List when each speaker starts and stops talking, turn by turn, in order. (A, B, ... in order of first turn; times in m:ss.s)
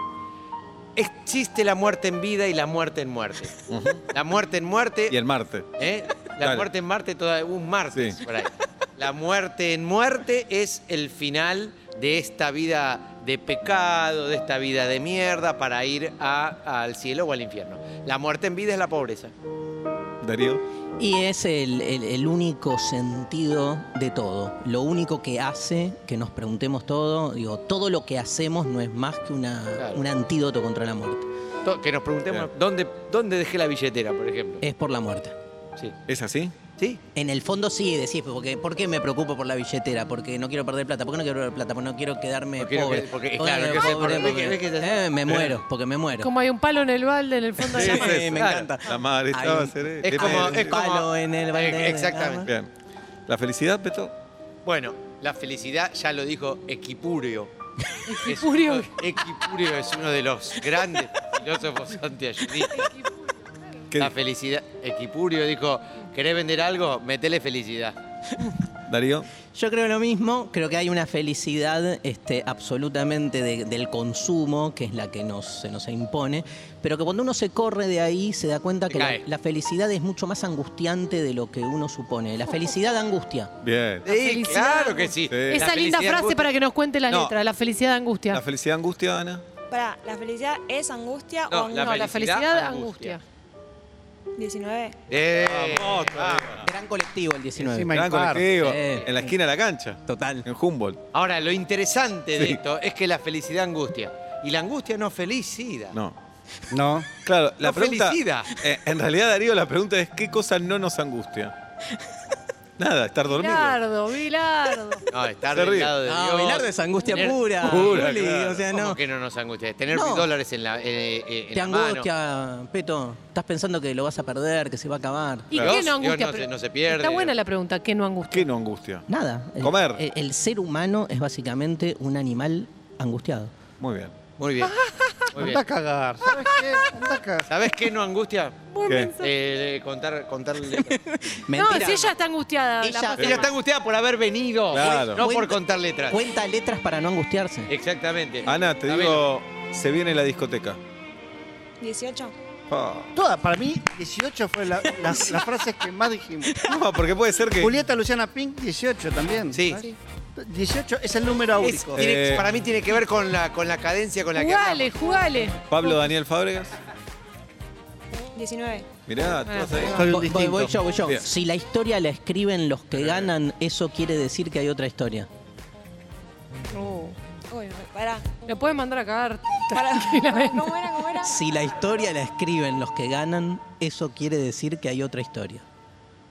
0:01.0-0:03.5 A
0:03.7-0:04.0 B
0:04.1-0:05.2 A
0:05.1-0:05.7 B
0:05.8-0:19.3 A
0:06.4-0:06.7 B
0:07.9-0:08.2 B
0:20.2-0:20.6 B
0:21.0-0:31.3 C
0:29.8-0:30.0 A
0:31.6-0:34.6 A
0:34.6-0:35.4 C
0:36.1-0:36.5 B
0:37.1-0:46.3 C
0:42.6-0:45.3 A
0:46.2-0:48.2 D
0:47.7-0:52.5 C
0:47.7-0:50.8 B
0:48.4-0:48.7 A
0:50.0-0:52.5 A
0:53.3-0:54.1 B
0:54.6-0:57.5 A
0:58.0-0:58.9 D
0:58.2-1:02.8 A
1:04.0-1:08.0 A
1:08.9-1:09.3 B
1:09.5-1:23.5 C
1:18.9-1:19.2 A
1:23.6-1:24.0 B
1:24.0-1:26.5 A
1:24.0-1:28.4 D
1:25.3-1:25.7 B
1:28.3-1:29.4 B
1:29.7-1:32.0 E
1:31.5-1:33.2 A
1:31.7-1:33.2 D
1:34.4-1:35.0 E
1:35.1-1:36.6 A
1:35.4-1:36.7 B
1:36.6-1:39.3 C
1:37.6-1:38.5 F
1:37.9-1:41.0 B
1:40.1-1:40.4 C
1:41.1-1:46.0 A
1:42.4-1:42.6 B
1:46.7-1:47.1 F
1:47.2-1:51.5 B
1:47.6-1:48.5 A
1:52.8-1:53.8 B
1:53.3-1:55.1 D
1:55.1-1:58.0 A
1:55.5-1:55.9 B
1:56.0-1:59.0 C
1:57.6-1:58.6 B
1:58.7-2:02.1 A
1:59.9-2:00.3 C
2:01.5-2:05.6 C
2:05.5-2:08.5 D
2:05.6-2:07.3 A
2:08.3-2:09.1 B
2:09.1-2:13.5 C
2:09.6-2:10.0 B
2:13.8-2:14.1 B
2:14.4-2:14.8 A
2:14.6-2:15.3 D
2:15.3-2:17.5 F
2:15.3-2:15.6 A
2:17.5-2:18.6 A
2:18.7-2:19.3 D
2:18.9-2:19.1 B
2:19.2-2:21.0 A
2:20.7-2:22.1 C
2:21.5-2:23.5 D
2:22.8-2:23.5 C
2:23.2-2:26.2 A
2:24.7-2:25.2 B
2:25.2-2:27.7 C
2:27.7-2:29.2 A
2:28.4-2:30.8 B
2:31.8-2:32.3 E
2:32.7-2:33.2 B
2:33.1-2:36.6 F
2:35.0-2:35.5 C
2:36.6-2:37.8 B
2:37.6-2:42.0 F
2:39.5-2:39.9 A
2:41.6-2:44.9 A
2:41.9-2:42.5 B
2:44.3-2:46.0 D
2:45.7-2:46.8 B
2:48.3-2:48.8 E
2:49.1-2:50.2 B
2:49.5-2:49.9 D
2:49.9-2:50.8 F
2:50.0-2:55.3 C
2:53.0-2:53.3 B
2:56.7-2:57.2 D
2:57.5-2:58.2 E
2:58.4-3:00.7 D
2:59.7-3:01.4 E
3:01.2-3:05.6 C